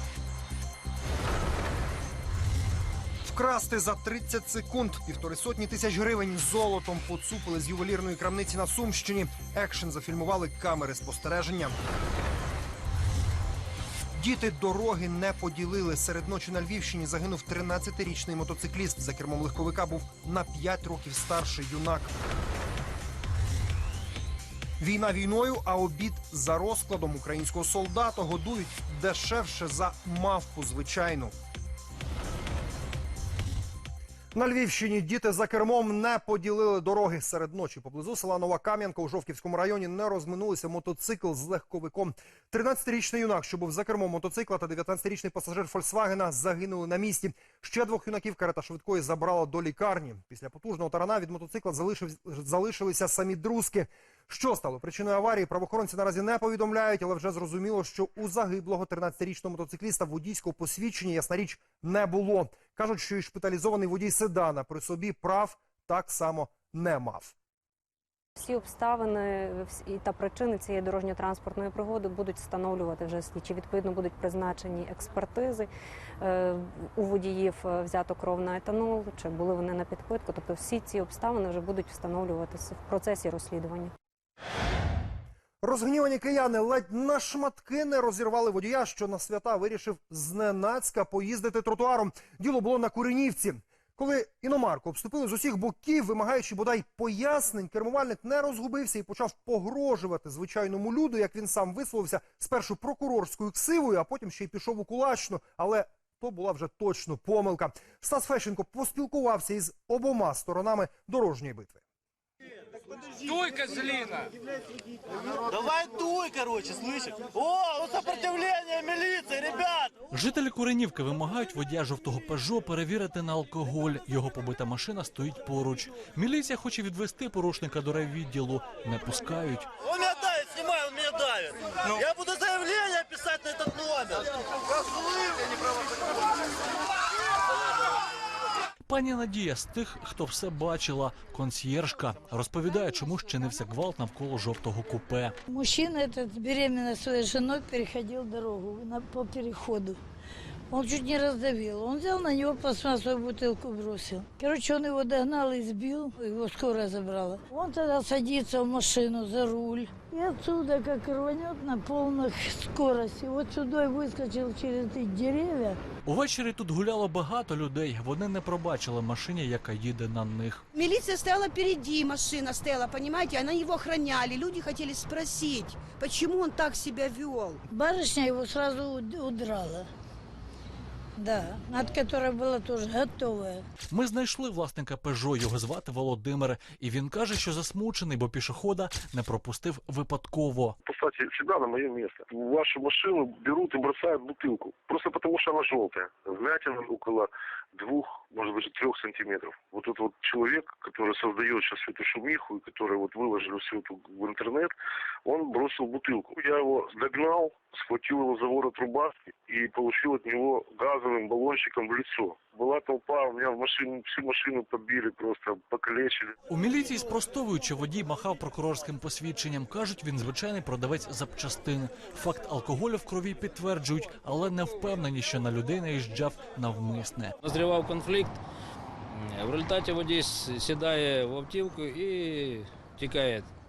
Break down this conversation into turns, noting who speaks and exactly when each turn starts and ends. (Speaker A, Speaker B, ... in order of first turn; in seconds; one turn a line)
Speaker A: 3.2-11.7
Speaker A: 14.1-22.1
Speaker A: 24.8-31.3
Speaker A: 34.3-67.3
Speaker B: 68.4-75.7
Speaker B: 76.2-83.9
Speaker A: 85.6-111.8
Speaker C: 117.5-119.9
Speaker D: 120.1-129.7
Speaker C: 130.3-131.4
Speaker C: 132.0-134.1
Speaker D: 138.8-145.3
Speaker E: 145.5-150.0
Speaker E: 150.7-165.8
Speaker D: 166.1-170.6
Speaker F: 170.8-177.6
Speaker E: 177.7-179.9
Speaker E: 181.2-183.6
Speaker D: 183.9-190.8
Speaker G: 190.9-204.7
Speaker G: 205.3-216.3
Speaker D: 216.5-227.3
Speaker H: 227.4-228.4
Speaker H: 229.1-233.5